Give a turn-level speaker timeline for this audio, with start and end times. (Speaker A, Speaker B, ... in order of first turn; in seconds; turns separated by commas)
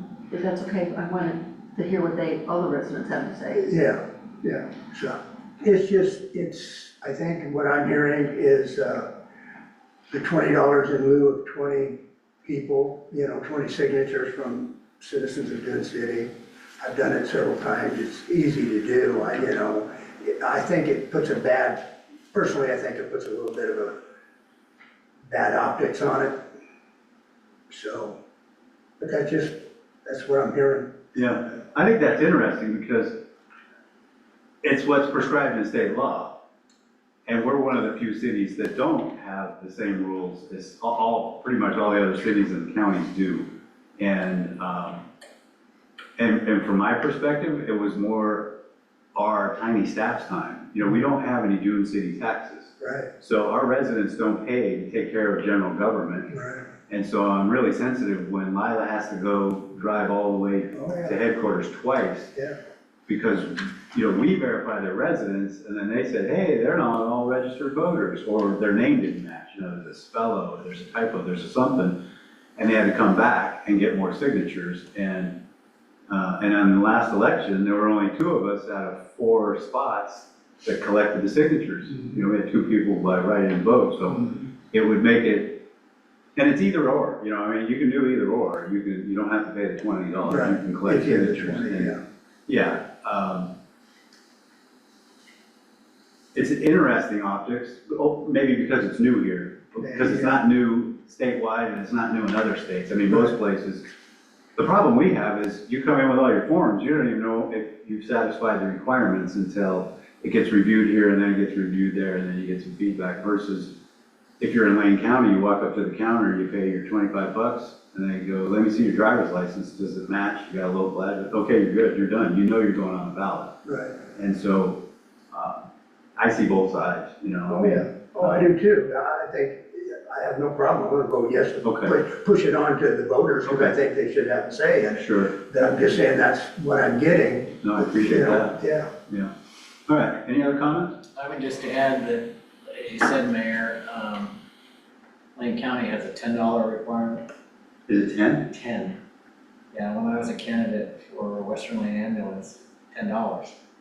Speaker A: 0.3-3.6, Speaker B: 3.5-9.1, Speaker B: 10.1-24.0, Speaker B: 25.3-26.4, Speaker B: 27.7-28.2, Speaker B: 29.0-30.9, Speaker C: 31.1-33.2, Speaker C: 34.6-36.3, Speaker C: 37.3-45.1, Speaker C: 46.2-48.5, Speaker C: 49.1-56.3, Speaker B: 52.8-53.1, Speaker B: 56.3-56.6, Speaker C: 56.9-62.3, Speaker B: 60.7-61.2, Speaker C: 63.1-72.0, Speaker C: 72.6-75.4, Speaker C: 76.1-85.6, Speaker C: 86.3-91.9, Speaker B: 90.3-92.0, Speaker C: 92.5-93.5, Speaker C: 96.3-103.8, Speaker B: 99.8-100.4, Speaker C: 104.6-113.7, Speaker C: 114.4-123.5, Speaker B: 123.7-124.0, Speaker C: 124.1-125.6, Speaker C: 126.2-128.5, Speaker B: 127.5-138.9, Speaker C: 131.6-131.9, Speaker C: 133.5-133.7, Speaker C: 134.9-135.9, Speaker C: 137.6-139.3, Speaker C: 139.9-141.0, Speaker D: 141.2-144.4, Speaker D: 145.4-147.2, Speaker C: 147.9-148.5, Speaker D: 148.5-149.0, Speaker D: 149.7-153.6